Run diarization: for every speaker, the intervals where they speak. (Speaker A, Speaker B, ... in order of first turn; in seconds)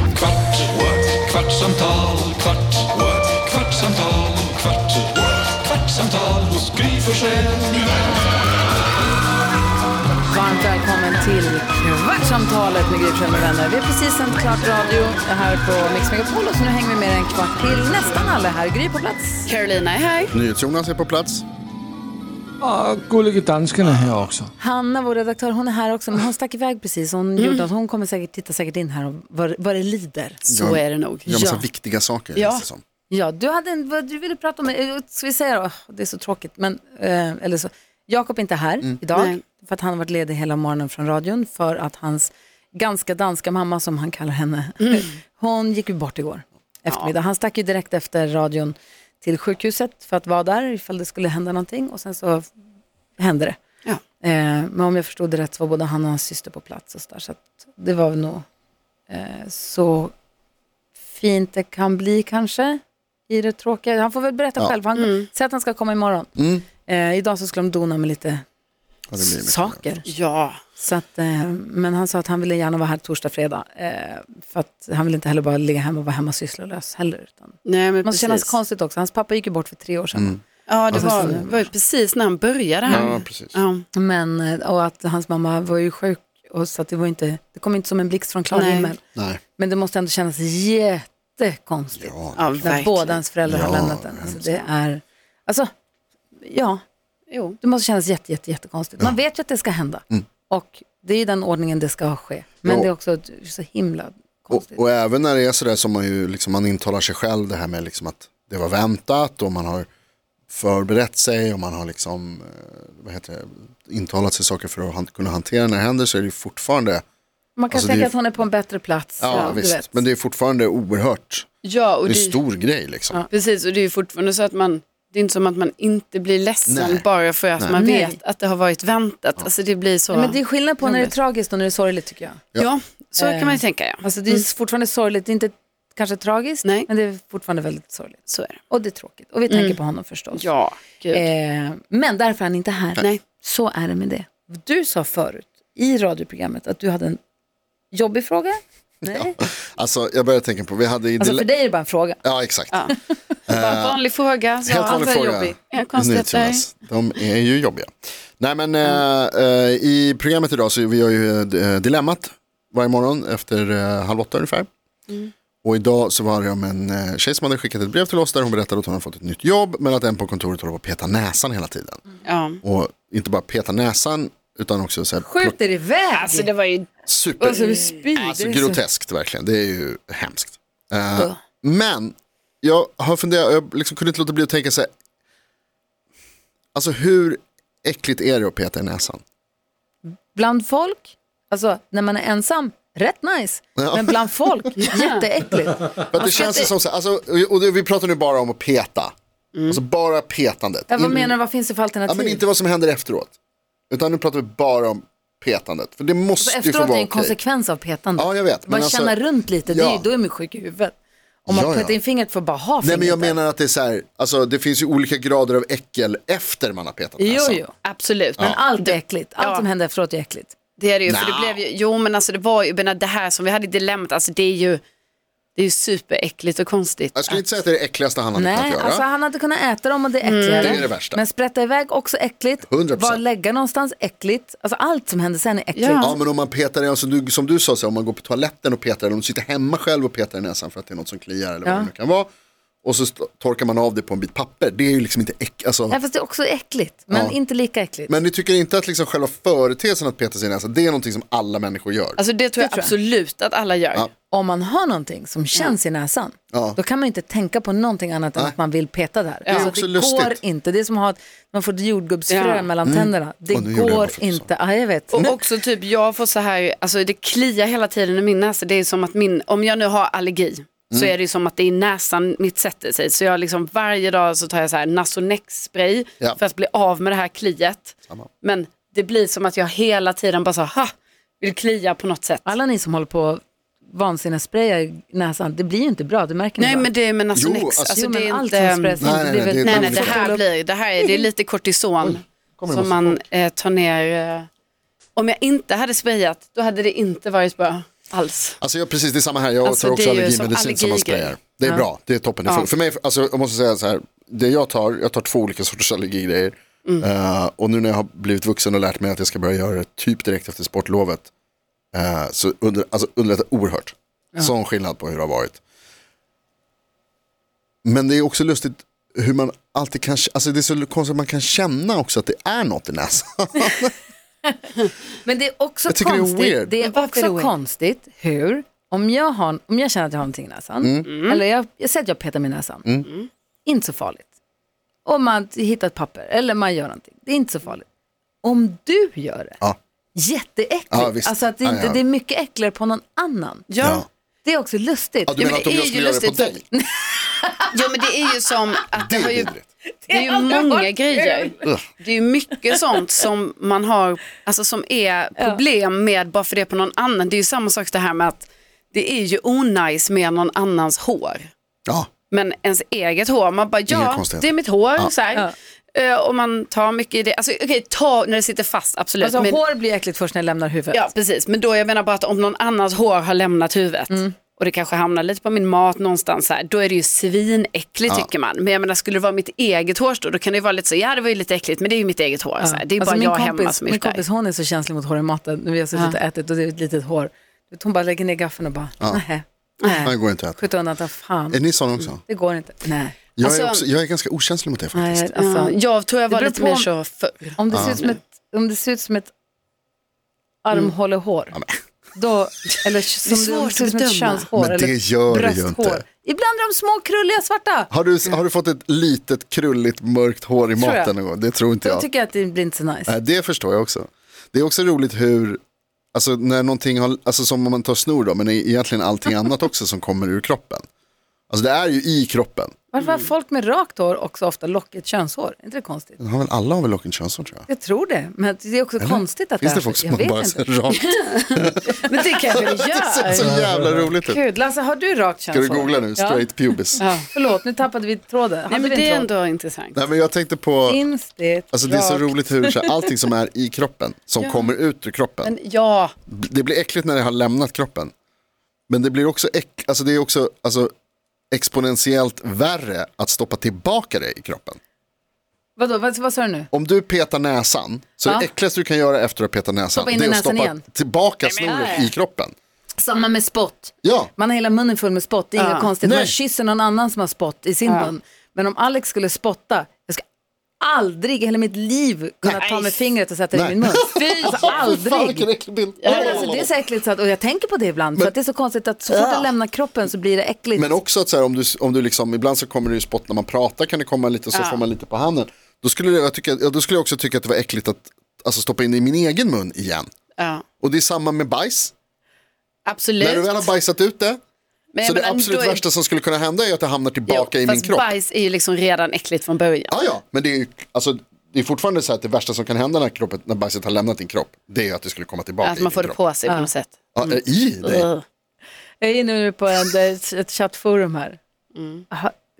Speaker A: 0.6-2.1, 2.9-4.3, 5.9-7.3
Speaker B: 1.5-2.3, 6.3-7.5, 22.6-24.5, 433.4-434.0
Speaker C: 10.2-19.5, 24.6-30.5, 31.3-31.6, 33.1-52.5, 53.2-53.6, 54.2-58.4, 59.1-60.1, 61.1-66.3, 66.8-68.4, 69.2-70.0, 70.8-80.4, 80.9-81.5, 83.9-89.0, 89.5-95.7, 96.4-96.8, 97.6-104.8, 117.5-120.0, 127.7-128.2, 130.1-132.4, 133.2-140.5, 141.1-147.2, 147.9-149.4, 151.2-152.2, 154.7-155.6, 175.2-176.5, 177.5-178.8, 190.3-196.5, 200.9-202.4, 206.4-210.9, 211.4-213.4, 217.2-217.7, 218.4-220.5, 228.3-236.2, 241.6-241.9, 245.9-248.2, 252.6-252.9, 254.3-265.2, 282.4-286.9, 287.9-290.4, 325.2-332.9, 333.6-334.3, 335.0-337.9, 338.4-339.6, 340.1-343.6, 344.4-345.4, 346.7-347.7, 349.9-351.7, 369.2-371.1, 382.6-391.6, 392.2-393.2, 394.9-395.8, 396.3-396.9, 397.6-399.3, 400.6-401.6, 402.1-407.9, 410.8-411.1, 411.8-413.1, 422.9-426.2, 427.7-431.1, 431.8-432.7, 434.2-439.3, 440.9-443.1, 455.8-456.7, 459.9-460.8, 461.6-462.1, 463.0-470.2, 470.8-475.5, 476.0-481.0, 509.0-511.4
Speaker D: 19.4-20.3, 27.4-27.7, 30.4-31.6, 32.4-32.6, 39.1-39.4, 65.0-65.3, 70.0-70.6, 77.6-78.5, 80.7-83.8, 88.5-88.9, 92.3-93.2, 97.3-97.6, 119.3-119.6, 121.6-122.4, 123.3-131.1, 132.6-134.4, 138.3-138.6, 139.5-139.8, 140.3-141.2, 153.5-156.6, 172.2-172.6, 176.1-176.9, 177.4-178.0, 194.8-195.2, 196.2-196.7, 199.5-199.8, 217.8-219.7, 220.8-224.8, 225.6-227.4, 230.2-230.8, 235.7-236.2, 252.2-254.1, 259.4-259.7, 262.3-262.7, 265.2-282.6, 286.6-294.5, 295.1-298.6, 299.6-301.9, 326.8-327.5, 331.1-331.4, 343.7-344.0, 345.4-346.6, 347.7-349.5, 350.1-361.5, 362.3-369.6, 370.9-384.2, 393.4-393.9, 395.4-398.2, 403.2-404.5, 423.0-423.2, 431.0-433.5, 437.0-437.3, 438.7-440.0, 444.4-444.7, 445.4-446.1, 461.4-461.9, 465.6-465.9, 467.9-468.1, 472.6-473.0, 474.1-474.8, 476.0-476.5, 479.1-479.5, 484.5-484.8, 490.4-490.6, 492.9-493.7, 494.9-495.8, 497.3-500.0, 505.6-508.2, 511.7-512.0
Speaker E: 20.3-21.4, 23.8-24.3, 30.5-32.8, 66.3-66.6, 69.1-69.8, 80.1-81.5, 82.9-83.6, 89.1-89.4, 92.0-92.8, 93.4-94.7, 102.6-102.9, 104.5-109.9, 110.5-117.0, 117.7-118.1, 119.2-121.5, 122.0-123.2, 126.7-127.0, 149.0-151.5, 152.2-152.9, 153.5-154.0, 154.6-164.7, 165.6-172.0, 172.6-175.6, 177.1-177.6, 178.1-184.9, 186.7-189.2, 193.8-194.2, 196.1-199.1, 199.7-201.3, 202.1-203.3, 203.9-207.3, 208.2-210.1, 211.5-212.0, 212.8-217.6, 221.1-221.6, 227.1-229.0, 230.5-231.2, 232.7-233.2, 236.0-242.3, 242.8-246.0, 247.1-247.4, 248.1-252.2, 256.5-256.8, 259.5-260.4, 262.8-264.5, 265.1-265.4, 287.3-287.9, 289.0-290.3, 292.0-293.2, 298.6-311.3, 311.9-315.6, 317.8-323.9, 325.9-326.7, 330.8-331.1, 340.9-342.0, 343.8-344.1, 345.3-346.6, 349.0-349.7, 363.9-365.1, 390.0-390.7, 391.5-392.2, 393.4-395.3, 397.7-398.0, 404.6-406.0, 407.9-412.1, 413.1-415.6, 416.1-420.8, 421.5-422.8, 426.2-427.7, 429.0-431.9, 432.5-434.4, 435.5-437.1, 439.9-441.0, 441.7-445.5, 446.3-448.1, 448.9-450.9, 451.5-454.8, 456.7-462.5, 464.0-464.3, 466.0-466.3, 473.5-476.7, 480.8-490.1, 490.8-491.9, 493.2-494.4, 495.0-498.1, 499.9-506.2, 507.1-508.1